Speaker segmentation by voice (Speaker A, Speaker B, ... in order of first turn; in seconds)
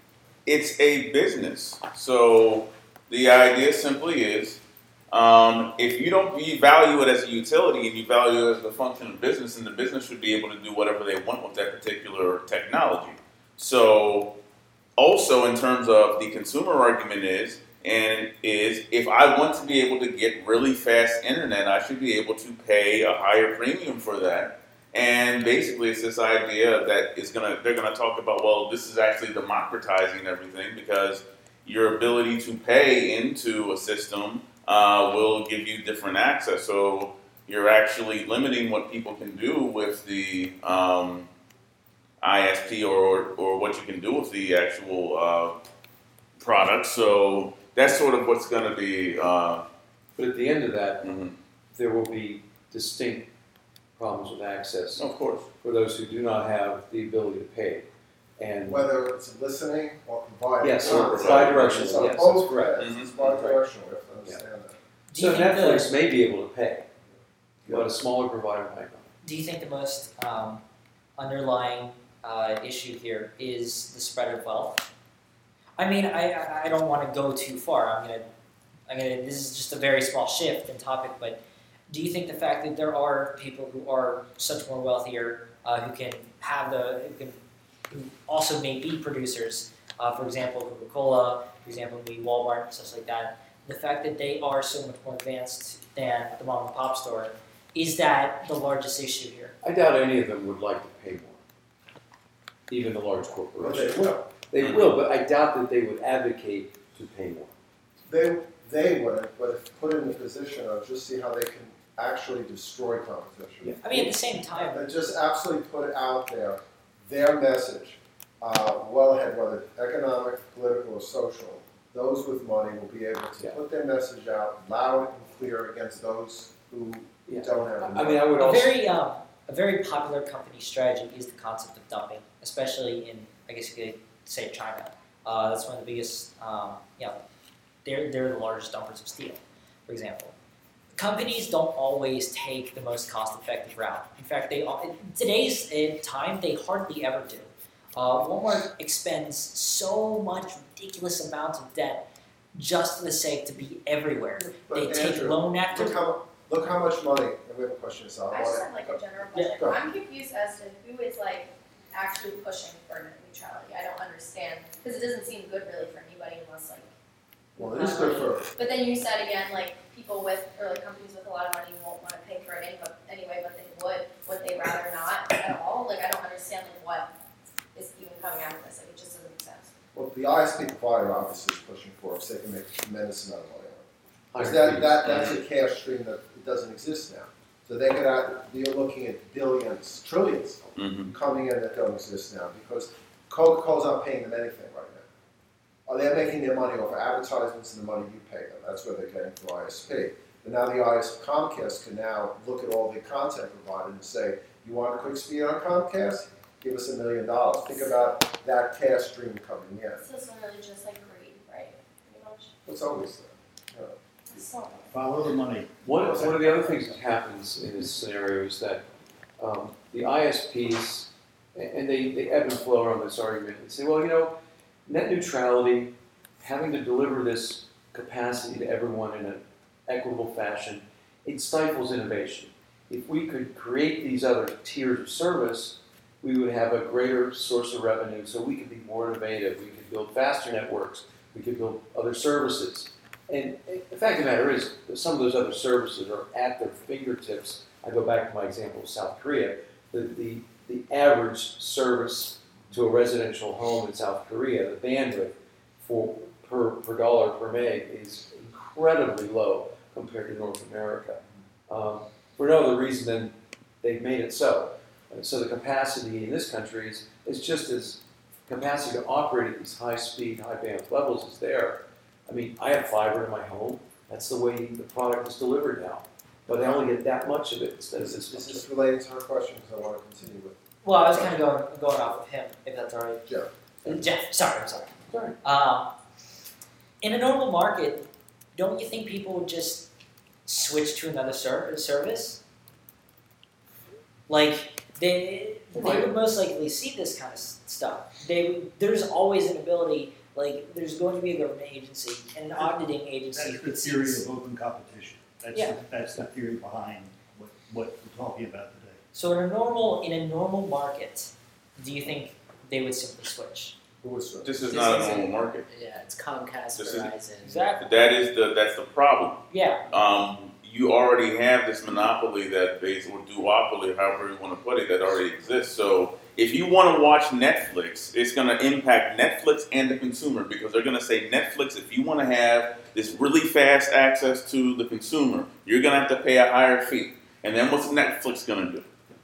Speaker A: 0.5-14.3, 15.0-41.3, 42.2-45.6, 46.4-49.6, 51.0-51.3, 55.0-55.5, 60.8-62.0, 62.8-63.5, 104.6-104.9, 190.8-191.1, 314.4-315.7, 316.7-317.1, 317.8-338.9
Speaker B: 50.1-51.1, 51.7-53.3, 54.0-55.1, 55.6-57.9, 58.4-58.9, 60.6-62.8, 65.2-66.9, 67.7-69.1, 99.6-101.4, 102.7-107.5, 113.6-114.1, 127.3-128.8, 184.3-185.4, 215.8-218.8, 219.4-278.7, 285.1-285.4, 295.7-296.1
Speaker C: 58.6-64.8, 67.6-67.9, 103.6-104.3, 108.1-113.8, 114.5-128.2, 154.5-159.0, 167.6-168.6, 179.9-183.8, 184.4-195.1, 195.9-210.0, 212.6-213.9, 215.9-216.6, 278.0-280.6, 314.0-314.6
Speaker D: 65.1-65.9, 69.2-70.6, 71.2-74.9, 75.8-78.3, 78.9-87.4, 87.9-99.5, 113.8-114.8, 128.4-137.2, 137.8-140.3, 140.9-156.0, 280.8-283.2, 283.9-284.9, 285.4-285.9, 287.0-289.9, 290.4-292.4, 294.3-304.2, 305.5-305.8, 309.1-313.8, 317.4-317.9, 319.5-319.9
Speaker E: 158.3-166.9, 167.6-177.1, 177.7-179.7, 210.0-212.5, 214.3-214.9
Speaker F: 214.9-216.2, 302.5-309.0
Speaker G: 314.7-317.7